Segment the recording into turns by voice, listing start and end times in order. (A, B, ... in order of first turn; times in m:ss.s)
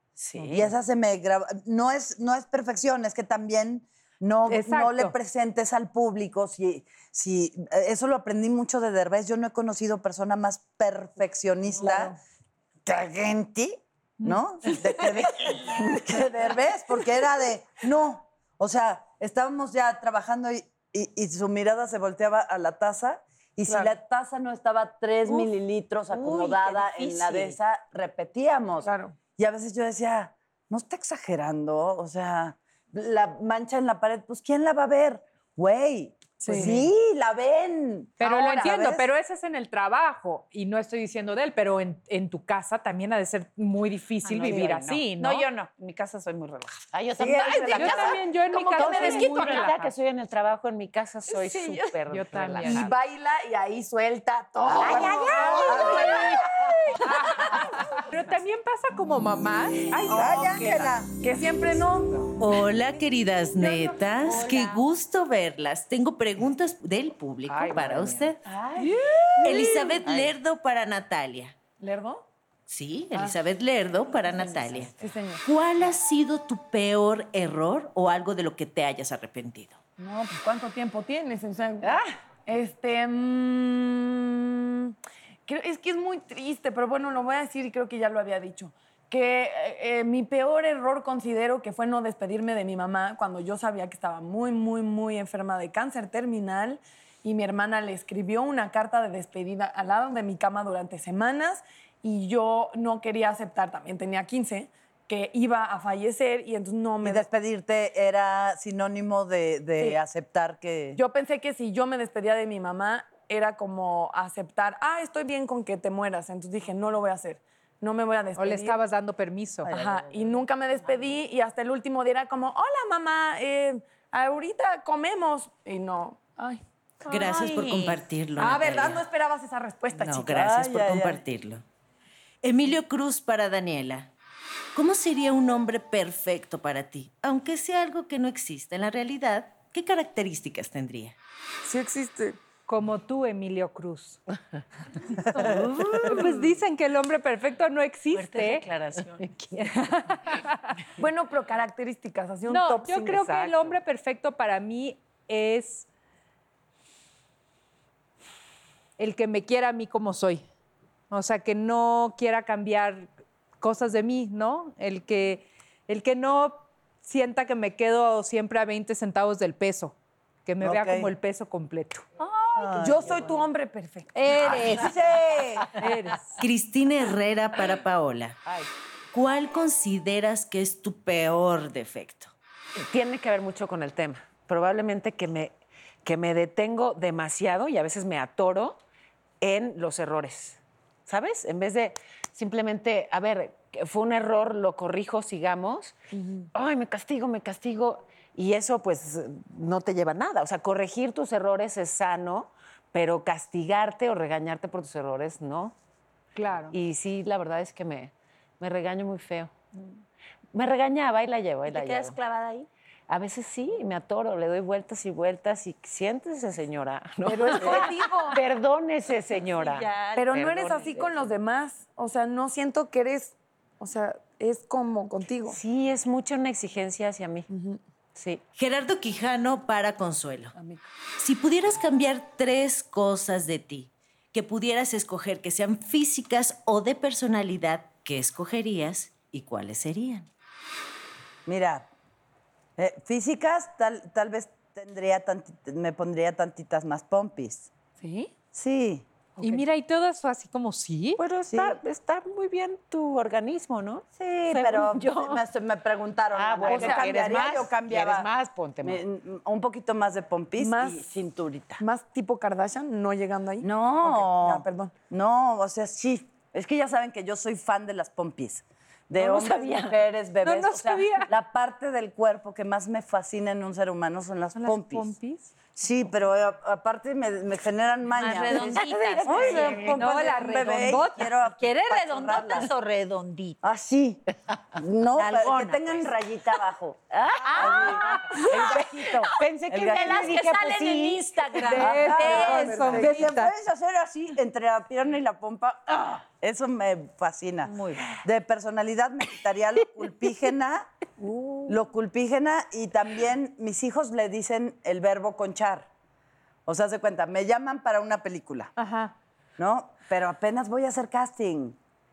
0:00.2-0:00.7 A
0:00.4-0:00.7 B
0:00.4-0:12.2 C
0:04.5-0:05.1 D
0:11.8-0:12.1 E
0:12.8-0:39.1 C
0:23.7-0:23.9 E
0:26.1-0:27.6 A
0:28.8-0:29.2 E
0:36.4-0:36.8 E
0:38.2-0:45.5 D
0:44.2-0:46.9 A
0:46.9-0:53.0 B
0:47.2-0:48.2 C
0:47.7-0:49.9 D
0:48.8-0:49.7 A
0:51.3-0:51.6 E
0:52.1-0:52.9 D
0:52.6-0:58.0 E
0:54.8-0:56.4 B
0:55.0-0:56.1 D
0:55.4-0:56.2 C
0:57.0-1:00.8 D
1:00.0-1:01.1 C
1:00.1-1:02.4 E
1:02.4-1:08.4 F
1:07.5-1:08.9 B
1:08.5-1:10.2 E
1:09.4-1:11.6 F
1:11.8-1:12.2 E
1:12.7-1:19.8 F
1:13.1-1:13.4 E
1:14.3-1:15.4 E
1:20.0-1:25.0 E
1:25.5-1:47.3 E
1:47.0-1:51.0 C
1:51.0-1:58.8 E
1:58.4-1:59.7 D
1:59.7-2:00.1 C
1:59.7-2:06.6 E
2:07.0-2:08.0 A
2:07.1-2:09.0 F
2:08.4-2:10.5 E
2:09.9-2:11.6 F
2:10.3-2:11.2 C
2:12.4-2:14.1 F
2:14.7-2:21.2 F
2:21.6-2:22.4 E
2:22.7-2:24.2 D
2:25.4-2:28.7 D
2:25.5-2:25.8 C
2:25.6-2:26.0 A
2:28.1-2:29.2 A
2:29.2-2:30.7 D
2:31.0-2:33.7 E
2:32.5-2:35.9 D
2:39.0-2:40.4 D
2:41.1-2:43.1 D
2:43.6-2:52.0 D
2:50.6-2:51.1 C
2:52.2-2:53.3 A
2:52.6-2:53.2 C
2:52.8-2:54.8 E
2:54.2-2:55.0 D
2:54.4-2:55.7 C
2:55.8-2:56.4 D
2:56.4-2:58.4 F
2:59.1-3:02.3 F
3:02.8-3:08.8 B
3:09.4-3:16.0 B
3:16.1-3:16.5 E
3:16.5-3:25.8 B
3:26.4-3:26.8 D
3:26.7-3:29.5 B
3:30.5-3:32.2 B
3:31.7-3:32.7 A
3:33.1-3:41.3 B
3:37.2-3:38.4 E
3:39.6-3:40.8 A
3:40.2-3:45.6 E
3:45.5-3:47.5 B
3:47.5-3:47.8 E
3:48.2-3:48.4 B
3:48.6-3:50.5 F
3:50.6-3:50.8 E
3:51.2-4:00.3 F
4:01.5-4:01.9 C
4:02.8-4:07.7 C
4:08.0-4:08.3 E
4:08.5-4:09.1 C
4:09.4-4:09.6 E
4:09.4-4:11.2 D
4:11.2-4:15.4 B
4:11.5-4:11.8 C
4:14.2-4:18.3 C
4:16.3-4:19.0 B
4:16.6-4:17.1 E
4:18.8-4:21.8 C
4:20.6-4:21.0 E
4:21.8-4:24.9 E
4:23.6-4:35.1 C
4:29.2-4:30.0 B
4:30.4-4:31.3 D
4:34.6-4:35.5 D
4:35.8-4:42.7 C
4:38.2-4:39.9 A
4:38.5-4:40.0 B
4:39.4-4:41.3 D
4:41.5-4:43.6 A
4:43.6-4:47.0 C
4:45.2-4:46.1 A
4:47.1-4:51.8 B
4:47.4-4:49.1 A
4:47.5-4:48.8 C
4:49.7-4:50.3 C
4:49.8-4:53.0 A
4:51.7-4:53.5 D
4:51.8-5:00.9 C
4:52.0-4:53.3 E
4:57.6-4:58.1 A
5:01.7-5:05.9 C
5:06.7-5:08.7 C
5:08.8-5:09.1 D
5:09.6-5:11.8 C